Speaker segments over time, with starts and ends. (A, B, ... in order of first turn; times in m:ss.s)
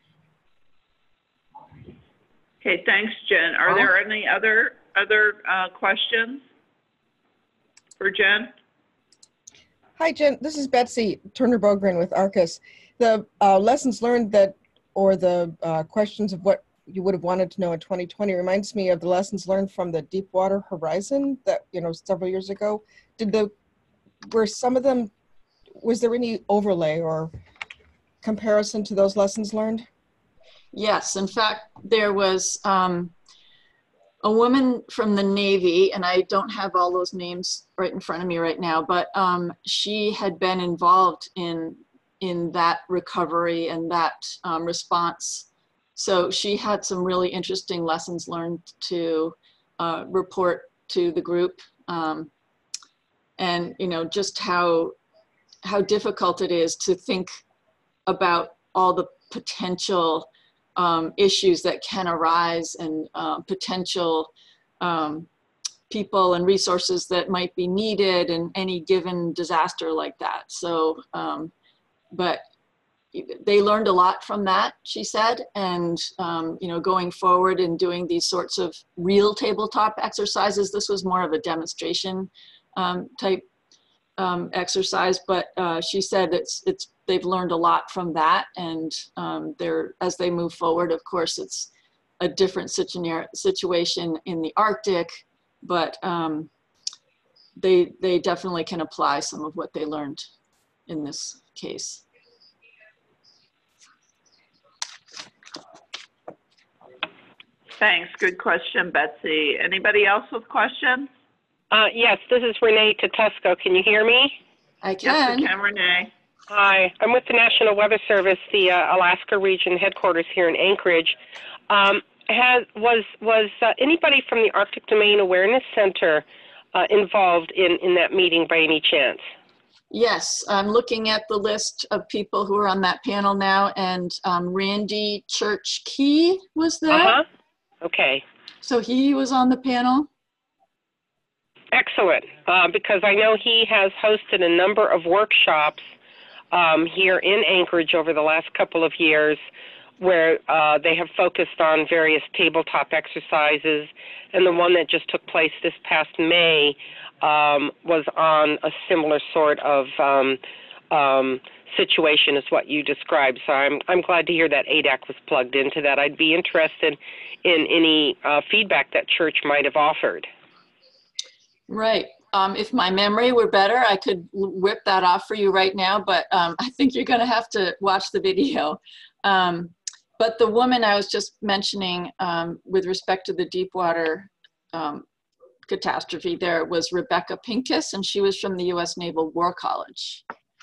0:02.6-0:06.4 A
0:08.0-0:08.5 A
0:10.0-0:23.5 B
0:24.3-0:25.1 B
0:25.8-0:27.3 B
0:28.2-0:29.8 B
0:30.7-0:33.1 C
0:34.2-0:52.3 C
0:53.4-0:55.0 C
0:55.6-0:57.3 C
0:58.0-1:05.3 C
1:05.9-1:11.5 C
1:12.1-1:12.4 C
1:13.1-1:23.4 C
1:24.2-1:31.7 C
1:32.2-1:36.5 C
1:37.6-1:40.3 C
1:40.9-1:42.0 C
1:47.8-1:51.1 A
1:51.7-1:54.4 D
1:54.8-1:55.5 C
1:55.0-1:56.1 A
1:56.5-2:01.2 D
2:01.7-2:09.2 D
2:09.9-2:17.2 C
2:16.9-2:17.2 D
2:17.8-2:18.2 D
2:18.6-2:20.1 C
2:21.7-2:25.9 D
2:26.5-2:29.4 D
2:30.0-2:40.4 D
2:40.9-2:50.3 D
2:51.7-3:05.0 C
3:05.6-3:10.2 C